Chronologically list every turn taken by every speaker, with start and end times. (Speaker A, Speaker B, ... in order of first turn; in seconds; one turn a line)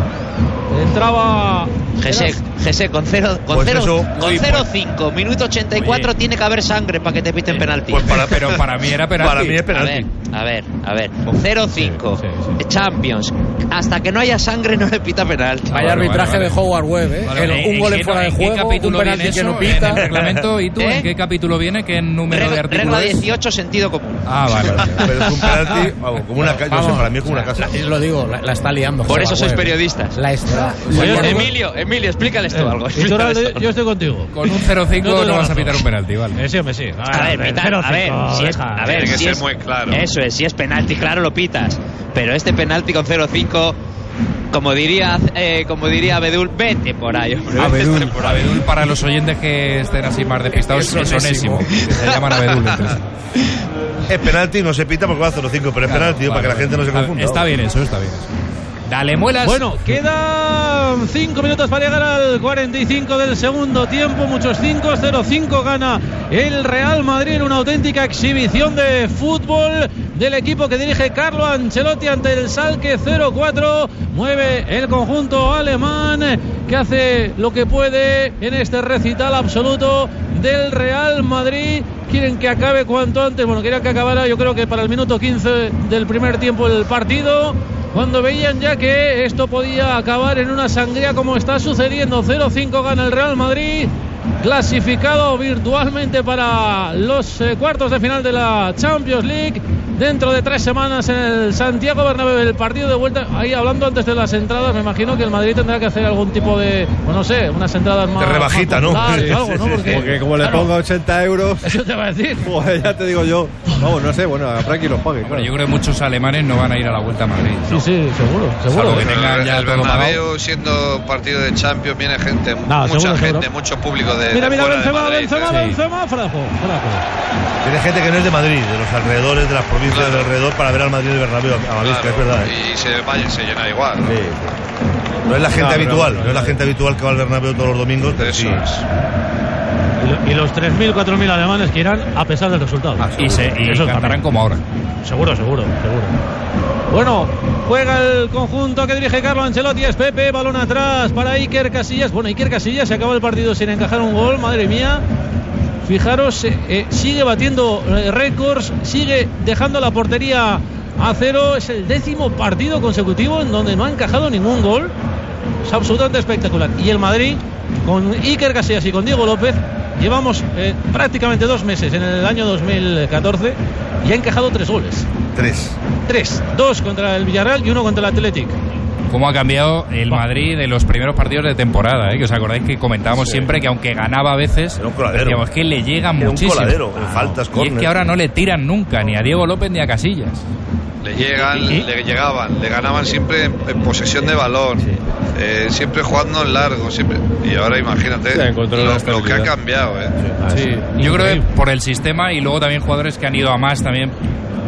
Speaker A: 0.7-2.3
Speaker B: 2.0-8.2
Speaker C: 3.5-4.7
Speaker C: 7.8-10.1
Speaker D: 8.1-9.7
Speaker B: 9.7-15.7
Speaker A: 12.2-12.6
Speaker D: 15.7-16.6
Speaker E: 15.7-20.1
Speaker D: 17.2-23.2
Speaker C: 20.0-20.4
Speaker B: 20.8-21.1
Speaker B: 22.3-24.6
Speaker D: 24.2-25.1
Speaker C: 24.8-27.8
Speaker E: 26.6-31.5
Speaker B: 29.0-30.2
Speaker A: 30.8-31.5
Speaker B: 30.9-33.6
Speaker A: 32.5-34.4
Speaker D: 34.3-36.4
Speaker A: 34.9-35.8
Speaker A: 36.4-39.2
Speaker B: 37.0-43.8
Speaker F: 38.9-40.1
Speaker B: 44.5-48.6
Speaker D: 47.5-53.0
Speaker E: 51.0-51.6
Speaker B: 51.7-52.3
Speaker C: 54.1-57.5
Speaker D: 55.9-58.3
Speaker D: 58.9-60.0
Speaker A: 59.4-110.8
Speaker C: 108.2-110.1
Speaker G: 109.0-111.7
Speaker A: 111.6-112.5
Speaker G: 112.4-115.5
Speaker D: 115.3-117.9
Speaker A: 117.7-119.2
Speaker D: 118.6-120.2
Speaker F: 119.0-125.6
Speaker A: 122.7-123.5
Speaker A: 124.3-127.0
Speaker D: 125.5-125.8
Speaker C: 127.6-132.5
Speaker F: 129.9-130.3
Speaker F: 131.8-134.2
Speaker C: 134.0-134.5
Speaker C: 135.3-138.7
Speaker G: 135.5-136.6
Speaker F: 138.1-138.8
Speaker A: 140.0-144.2
Speaker D: 143.1-144.6
Speaker A: 145.0-146.2
Speaker A: 146.9-155.0
Speaker A: 155.8-164.9
Speaker A: 165.6-175.1
Speaker C: 175.3-175.8
Speaker A: 176.1-178.6
Speaker D: 179.1-186.9
Speaker C: 184.8-185.4
Speaker C: 186.2-187.9
Speaker A: 186.9-187.4
Speaker D: 187.4-190.4
Speaker F: 191.0-200.1
Speaker A: 191.2-191.9
Speaker G: 198.3-199.5
Speaker G: 200.4-200.9
Speaker A: 200.4-201.5
Speaker D: 200.9-204.1